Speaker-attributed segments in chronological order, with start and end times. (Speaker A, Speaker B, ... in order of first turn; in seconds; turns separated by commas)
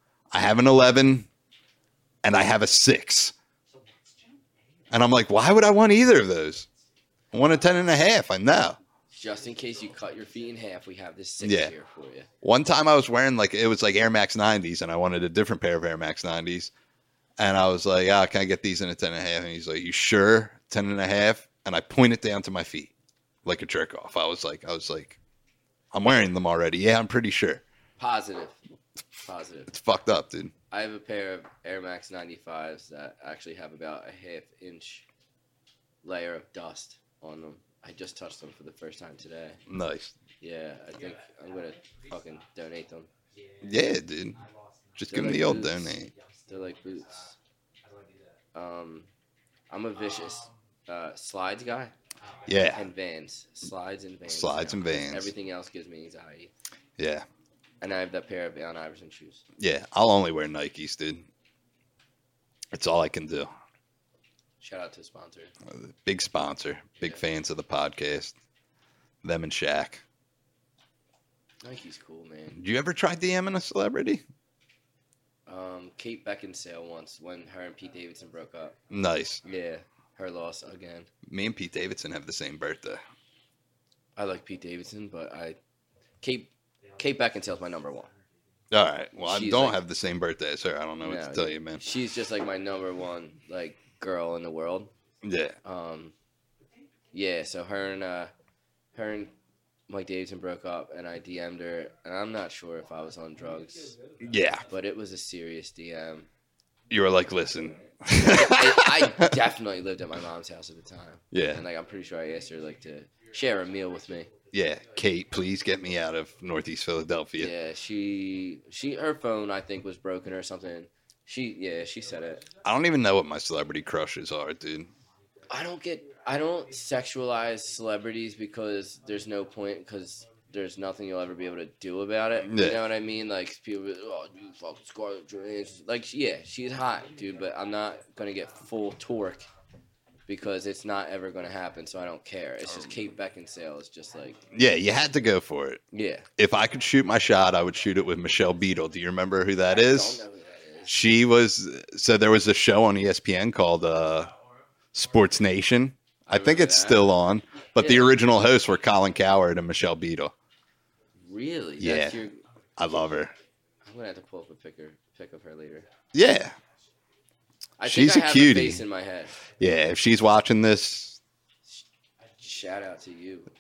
Speaker A: 0.3-1.3, Speaker A: 2.2-3.3, Speaker B: 3.7-4.5, Speaker A: 4.9-6.7, Speaker A: 7.3-8.8, Speaker C: 9.1-12.3, Speaker A: 11.4-11.7, Speaker A: 12.4-16.7, Speaker A: 17.4-22.9, Speaker A: 23.4-25.2, Speaker A: 25.9-27.6, Speaker C: 28.0-28.6, Speaker C: 29.2-29.7, Speaker A: 29.7-30.5, Speaker C: 30.7-35.0, Speaker C: 36.0-39.6, Speaker A: 39.7-40.1, Speaker C: 40.4-43.1, Speaker B: 41.0-42.4, Speaker B: 43.3-45.2, Speaker A: 43.6-44.4, Speaker A: 45.0-46.1, Speaker C: 45.1-47.3, Speaker B: 46.1-47.2, Speaker B: 47.8-48.4, Speaker C: 48.5-49.1, Speaker C: 49.7-51.9, Speaker B: 52.2-52.7, Speaker A: 52.5-52.9, Speaker C: 52.5-56.5, Speaker A: 54.3-55.3, Speaker A: 57.0-57.2, Speaker C: 57.8-59.4, Speaker A: 59.6-61.2, Speaker A: 62.7-63.5, Speaker C: 64.6-65.5, Speaker A: 65.7-68.3, Speaker A: 69.2-70.0, Speaker C: 71.6-72.6, Speaker A: 72.6-74.2, Speaker C: 75.5-78.7, Speaker A: 78.9-79.4, Speaker C: 79.4-81.1, Speaker A: 81.2-83.0, Speaker C: 84.2-85.6, Speaker C: 86.2-88.1, Speaker B: 86.8-88.2, Speaker A: 88.7-91.8, Speaker C: 89.2-89.8, Speaker C: 91.0-94.9, Speaker A: 95.2-95.5, Speaker C: 95.6-96.1, Speaker C: 97.1-98.3, Speaker C: 98.9-99.3, Speaker C: 99.9-103.9, Speaker B: 103.4-104.8, Speaker A: 104.2-104.6, Speaker C: 104.6-106.3, Speaker A: 106.9-109.3, Speaker C: 108.1-114.3, Speaker A: 111.3-111.6, Speaker B: 113.2-113.7, Speaker A: 114.5-117.5, Speaker B: 114.6-115.3, Speaker C: 117.4-122.4, Speaker A: 122.6-124.9, Speaker C: 125.5-139.5, Speaker A: 132.4-132.8, Speaker B: 137.1-137.7, Speaker C: 140.3-144.4, Speaker A: 144.5-145.8, Speaker C: 145.9-146.3, Speaker A: 146.4-150.2, Speaker C: 149.7-151.0, Speaker A: 150.8-154.3, Speaker A: 154.9-160.3, Speaker C: 156.2-157.1, Speaker C: 157.8-158.1, Speaker C: 161.2-162.4, Speaker A: 161.8-162.2, Speaker A: 162.8-163.3, Speaker C: 163.8-165.8, Speaker A: 166.1-166.6, Speaker C: 167.8-169.3, Speaker A: 167.8-168.8, Speaker A: 169.6-171.2, Speaker C: 172.4-173.5